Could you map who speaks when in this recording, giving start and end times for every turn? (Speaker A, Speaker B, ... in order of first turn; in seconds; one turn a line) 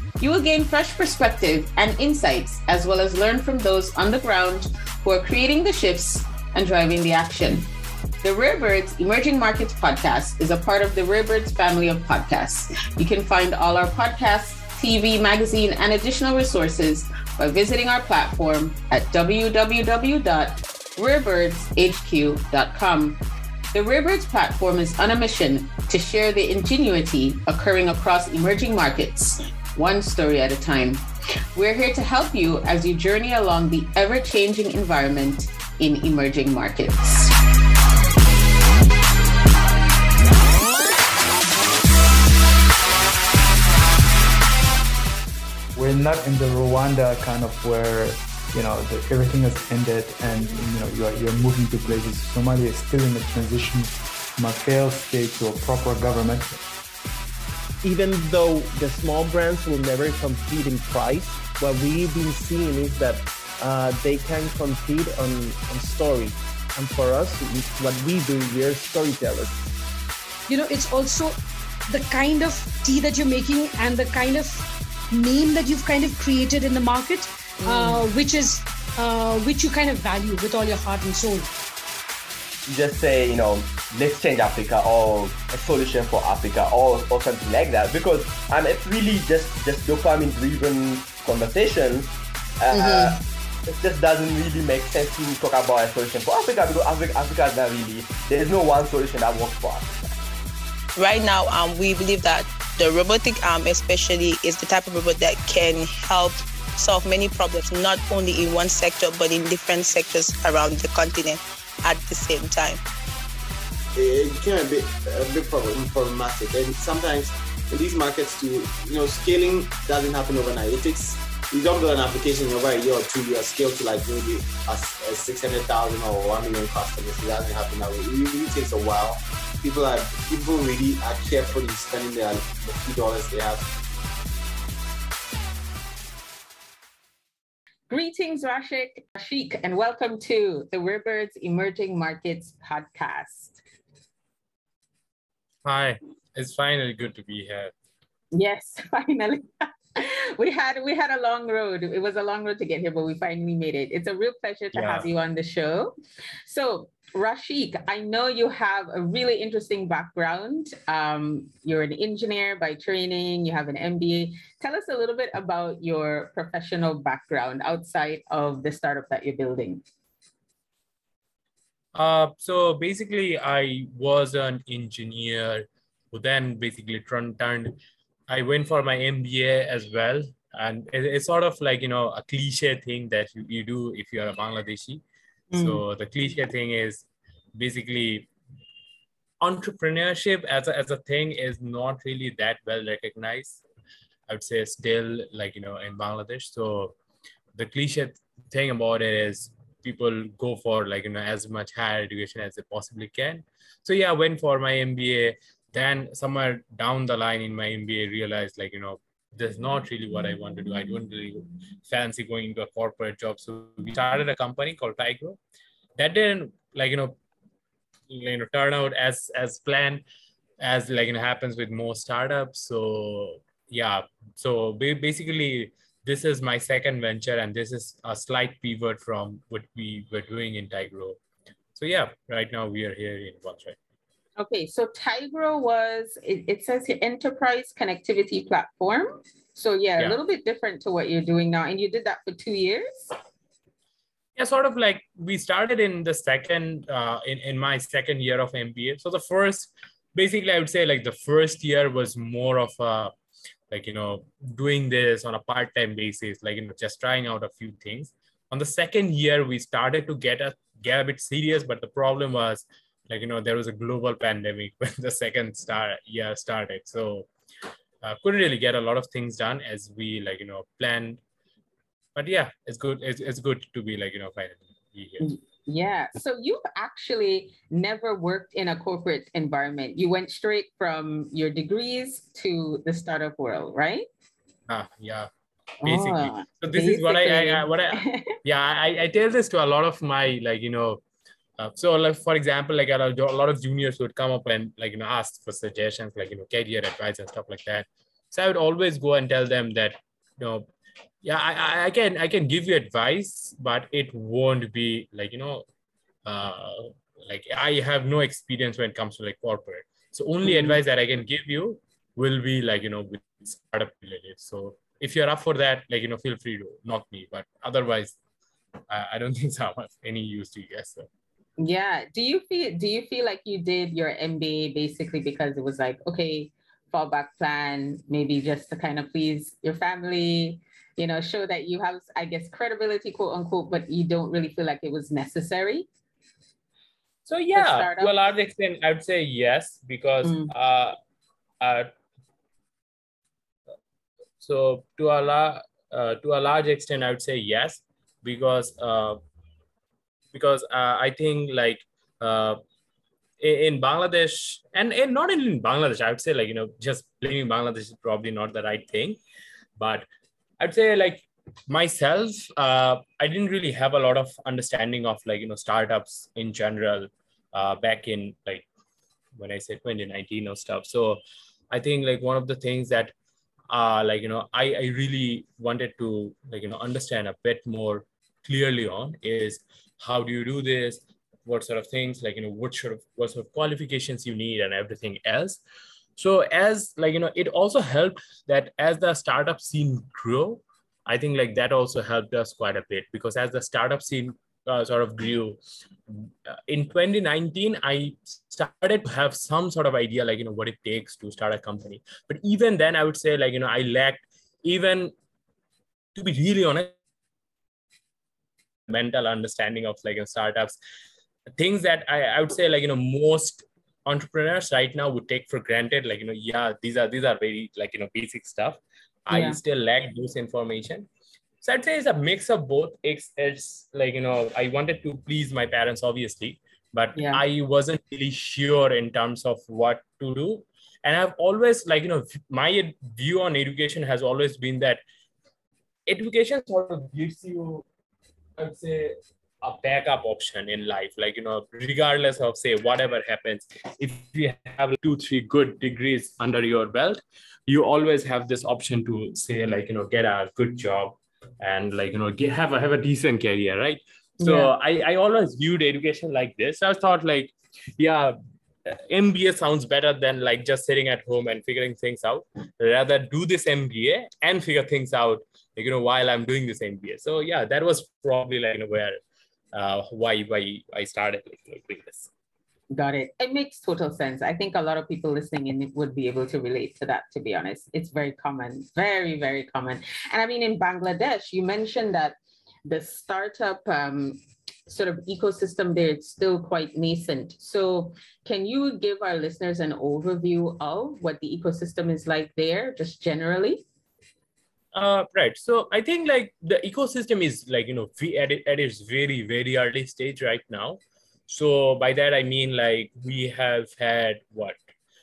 Speaker A: 0.2-7.7
Speaker A: 8.2-23.2
Speaker A: 23.7-37.3
Speaker B: 45.8-56.6
Speaker C: 57.8-69.5
Speaker D: 70.5-71.4
Speaker D: 71.9-81.5
Speaker E: 82.7-100.2
Speaker F: 92.7-93.1
Speaker F: 101.0-112.8
Speaker G: 114.0-133.7
Speaker A: 137.9-143.6
Speaker H: 145.6-147.7
Speaker A: 148.3-169.8
Speaker H: 154.7-155.1
Speaker H: 171.9-185.0
Speaker A: 185.5-185.8
Speaker H: 185.6-188.3
Speaker H: 189.4-193.6
Speaker H: 194.3-197.0
Speaker H: 197.6-215.4
Speaker H: 216.0-217.2
Speaker H: 218.1-220.1
Speaker H: 220.6-231.2
Speaker H: 231.8-233.8
Speaker A: 234.4-243.1
Speaker H: 244.4-253.1
Speaker H: 253.7-267.3
Speaker H: 268.0-271.2
Speaker H: 272.1-275.2
Speaker A: 275.2-284.1
Speaker H: 284.7-285.3
Speaker A: 285.8-288.4
Speaker H: 285.8-291.0
Speaker H: 291.6-300.7
Speaker H: 301.2-305.7
Speaker H: 306.2-318.2
Speaker A: 310.4-310.8
Speaker H: 318.9-321.1
Speaker A: 321.6-335.9
Speaker H: 337.3-341.0
Speaker A: 337.6-338.1
Speaker A: 340.2-340.5
Speaker H: 341.6-341.9
Speaker H: 344.4-349.2
Speaker H: 350.3-352.6
Speaker H: 353.4-359.2
Speaker H: 359.8-360.1
Speaker H: 360.6-368.7
Speaker H: 369.4-373.1
Speaker H: 373.7-385.6
Speaker H: 386.2-405.1
Speaker H: 406.1-407.0
Speaker H: 408.9-410.8
Speaker H: 411.6-421.1
Speaker A: 419.3-419.6
Speaker H: 421.6-435.0
Speaker A: 427.1-427.4
Speaker H: 436.1-437.9
Speaker H: 438.6-469.2
Speaker A: 454.4-454.7
Speaker H: 469.7-472.3
Speaker A: 472.9-493.8
Speaker H: 494.9-504.8